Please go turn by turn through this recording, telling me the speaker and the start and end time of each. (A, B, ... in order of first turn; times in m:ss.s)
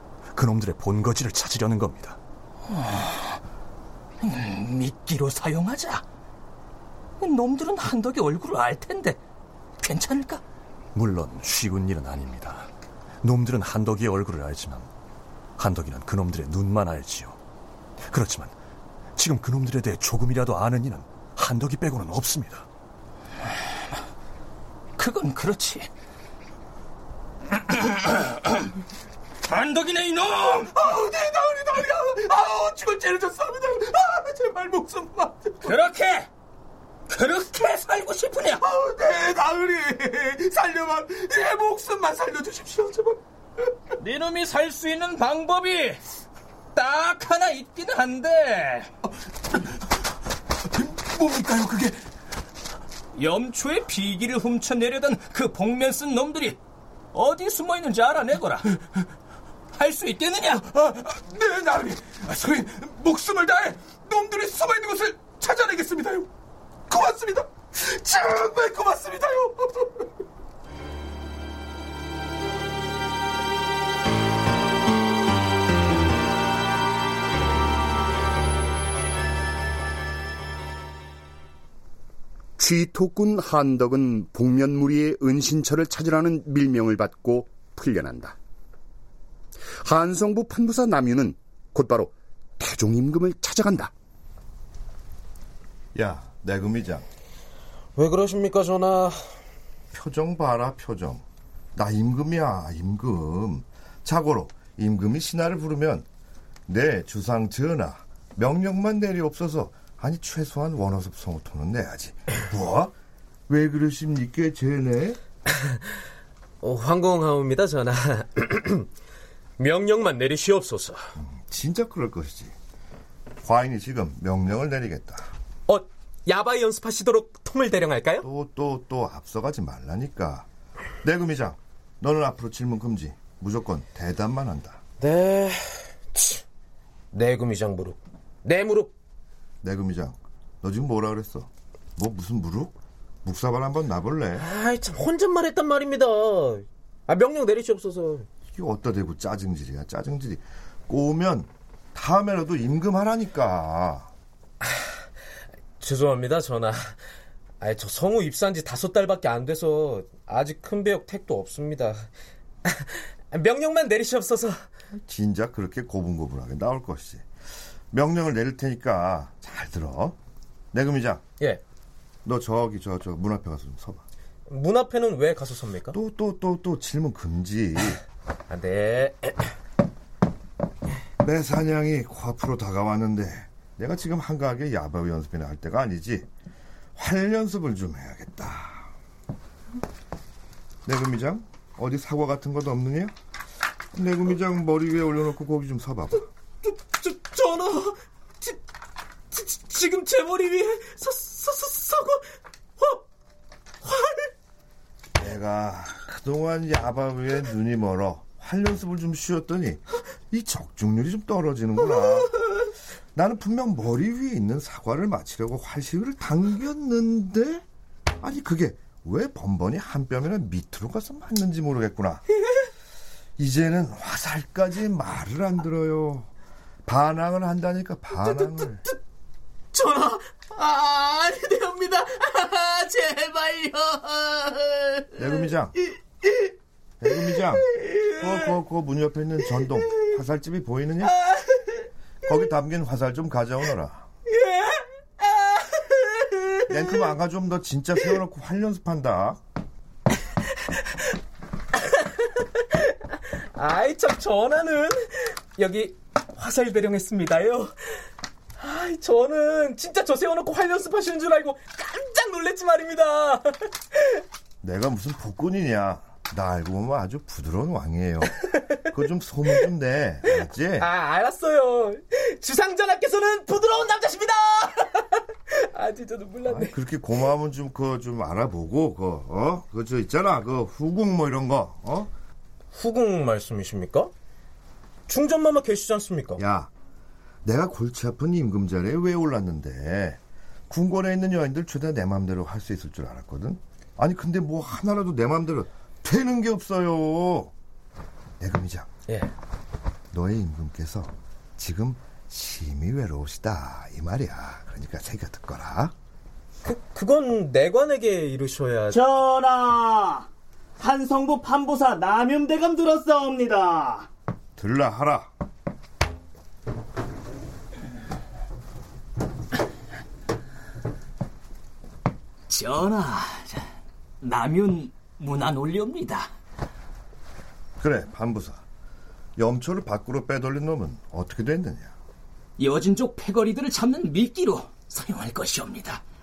0:00.4-0:02.2 A
0:02.7-0:03.3 B
0:04.2-0:06.0 B
0:07.2-0:09.2 B
0:09.8-0:10.4 B
0:11.0-0:12.7 A
0:13.2-0:14.9 A
0:15.6-0:17.4 A
0:18.1-0:18.6 A
0:19.2-0:22.7 A
0:25.0-0:25.9 B
0:27.7-0:28.7 B
0:29.5-0:30.7 B
0:30.7-0:35.8 C
0:35.6-0:36.3 B
0:37.1-0:38.6 B
0:38.6-0:43.2 C
0:44.0-0:46.0 B
0:46.8-0:48.9 B
0:50.8-0:51.9 C
0:53.2-0:56.6 B
0:57.1-0:58.7 B
0:59.8-1:00.7 B
1:00.8-1:06.3 C
1:06.9-1:09.9 C
1:22.6-1:28.4 D
1:29.8-1:33.9 D
1:36.0-1:37.1 E
1:38.0-1:39.2 F
1:39.9-1:41.2 E
1:41.8-1:46.1 E
1:46.7-1:52.9 E
1:53.5-1:55.2 E
1:56.6-1:58.9 F
1:59.6-2:01.0 F
2:01.2-2:02.5 E
2:03.4-2:05.3 E
2:05.7-2:08.3 F
2:08.2-2:10.5 E
2:11.0-2:14.8 E
2:15.0-2:16.4 F
2:17.1-2:18.9 F
2:19.6-2:24.5 E
2:24.4-2:28.3 F
2:28.5-2:34.1 E
2:35.8-2:37.0 F
2:37.6-2:42.1 F
2:42.7-2:44.7 F
2:45.0-2:47.2 E
2:47.9-2:50.2 E
2:50.7-2:51.2 E
2:52.3-2:54.0 E
2:54.5-2:56.0 F
2:55.9-2:58.0 E
2:58.5-2:59.4 F
3:01.2-3:06.3 E
3:07.0-3:08.9 E
3:10.9-3:13.1 E
3:13.9-3:16.2 E
3:16.7-3:17.9 F
3:19.3-3:22.2 F
3:23.9-3:24.2 F
3:25.2-3:32.3 E
3:33.2-3:37.6 E
3:38.2-3:42.2 E
3:43.4-3:46.3 E
3:46.9-3:48.8 E
3:49.7-3:55.2 F
3:55.2-3:55.8 E
3:57.0-4:01.1 E
4:02.3-4:04.1 E
4:04.3-4:04.8 F
4:05.4-4:06.6 F
4:06.7-4:09.4 E
4:13.5-4:17.7 F
4:18.6-4:23.6 F
4:24.6-4:28.3 E
4:28.9-4:30.9 E
4:30.3-4:36.8 F
4:36.5-4:42.1 E
4:42.7-4:44.1 F
4:45.1-4:46.4 F
4:46.4-4:46.7 E
4:47.4-4:57.5 E
4:58.4-4:58.9 E
5:00.1-5:05.9 E
5:06.6-5:09.0 F
5:08.9-5:10.3 G
5:10.8-5:14.0 G
5:14.6-5:15.3 E
5:22.5-5:23.7 B
5:24.2-5:26.3 B
5:27.8-5:28.6 E
5:29.4-5:31.9 E
5:32.6-5:36.0 B